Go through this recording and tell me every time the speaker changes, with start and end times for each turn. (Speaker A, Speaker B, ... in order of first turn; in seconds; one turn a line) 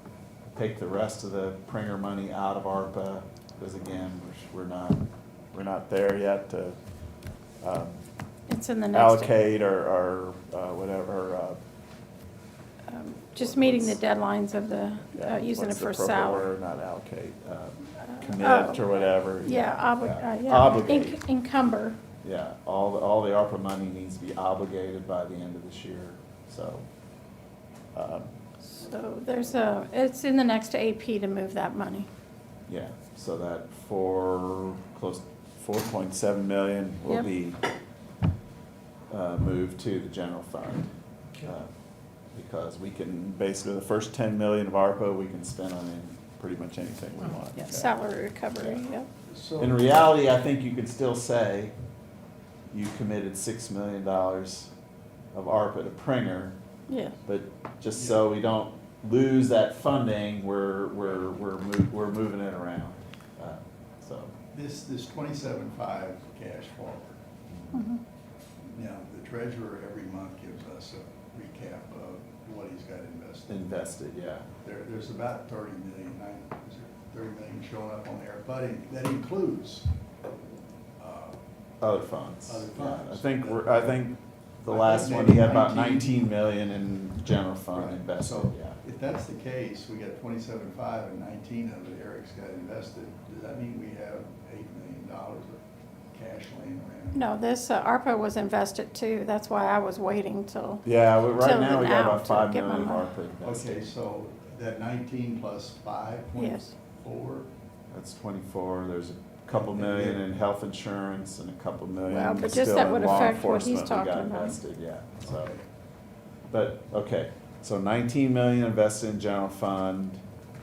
Speaker A: 0.6-6.8
Speaker A: 7.6-8.0
Speaker B: 8.5-9.3
Speaker A: 8.9-11.6
Speaker B: 12.9-16.5
Speaker A: 13.4-14.0
Speaker A: 15.2-21.2
Speaker B: 18.0-22.0
Speaker A: 22.2-26.9
Speaker A: 27.9-28.3
Speaker B: 28.6-32.1
Speaker A: 32.7-37.6
Speaker A: 39.1-40.9
Speaker A: 41.4-41.7
Speaker A: 42.3-48.0
Speaker B: 47.6-49.1
Speaker A: 48.5-48.8
Speaker C: 49.3-49.8
Speaker A: 49.6-51.7
Speaker A: 52.7-54.7
Speaker A: 55.3-56.6
Speaker B: 56.9-57.2
Speaker A: 57.2-64.3
Speaker C: 57.9-58.2
Speaker C: 64.5-67.2
Speaker B: 67.7-68.0
Speaker C: 68.6-73.7
Speaker A: 73.5-74.5
Speaker C: 74.6-79.9
Speaker C: 81.0-81.4
Speaker A: 81.8-88.8
Speaker C: 82.5-83.8
Speaker C: 84.7-86.3
Speaker C: 87.7-97.2
Speaker B: 97.1-103.1
Speaker A: 100.8-103.9
Speaker C: 103.4-107.5
Speaker B: 106.3-106.7
Speaker A: 107.9-115.5
Speaker C: 109.5-110.2
Speaker B: 112.1-114.6
Speaker C: 115.2-115.7
Speaker A: 116.5-120.2